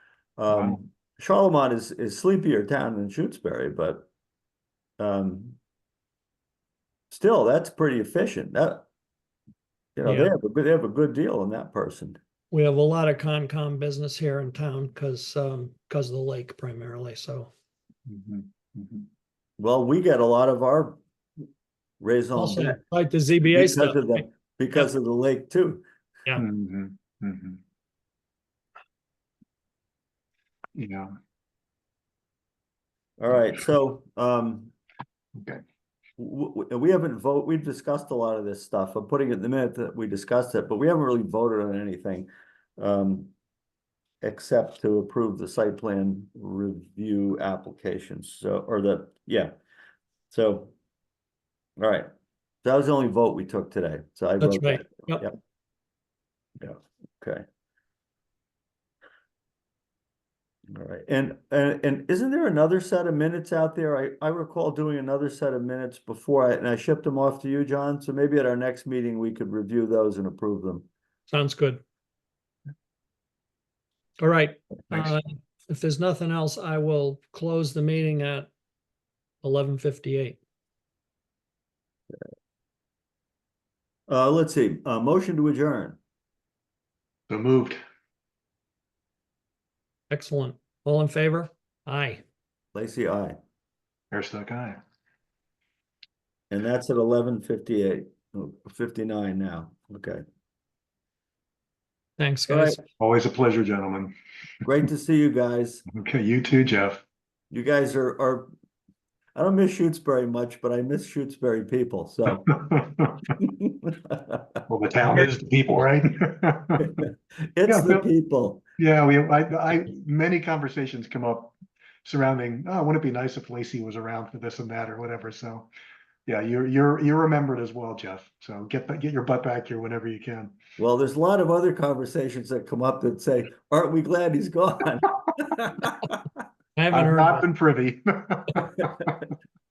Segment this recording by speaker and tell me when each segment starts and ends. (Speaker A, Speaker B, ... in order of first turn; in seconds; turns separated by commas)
Speaker A: 0.4-4.1, Speaker B: 0.5-0.8, Speaker A: 5.0-5.6, Speaker A: 7.1-8.8, Speaker A: 9.9-12.2, Speaker C: 10.0-10.3, Speaker C: 12.5-17.5, Speaker B: 18.1-19.1, Speaker A: 19.6-21.0, Speaker A: 22.0-22.8, Speaker C: 22.3-24.2, Speaker A: 23.4-25.8, Speaker B: 26.4-27.6, Speaker B: 30.7-31.1, Speaker A: 33.2-34.7, Speaker B: 35.4-35.6, Speaker A: 36.2-43.3, Speaker A: 44.2-49.5, Speaker A: 50.3-50.7, Speaker A: 51.8-52.1, Speaker A: 52.6-55.4, Speaker C: 54.4-55.2, Speaker A: 56.6-57.5, Speaker A: 60.7-70.9, Speaker C: 71.3-71.8, Speaker C: 74.2-78.5, Speaker C: 79.4-80.4, Speaker A: 84.1-86.0, Speaker B: 87.3-87.8, Speaker C: 90.1-92.2, Speaker A: 92.7-93.4, Speaker B: 94.1-94.8, Speaker A: 96.5-100.2, Speaker C: 102.2-102.8, Speaker A: 102.5-102.8, Speaker B: 103.0-104.1, Speaker A: 104.6-105.8, Speaker B: 105.9-107.0, Speaker A: 107.5-108.5, Speaker A: 109.3-112.5, Speaker B: 112.5-113.3, Speaker A: 113.4-114.6, Speaker B: 114.7-117.0, Speaker A: 116.8-118.6, Speaker B: 117.7-118.1, Speaker B: 118.8-125.7, Speaker B: 126.2-130.6, Speaker A: 130.8-136.3, Speaker C: 136.8-137.5, Speaker B: 136.9-139.2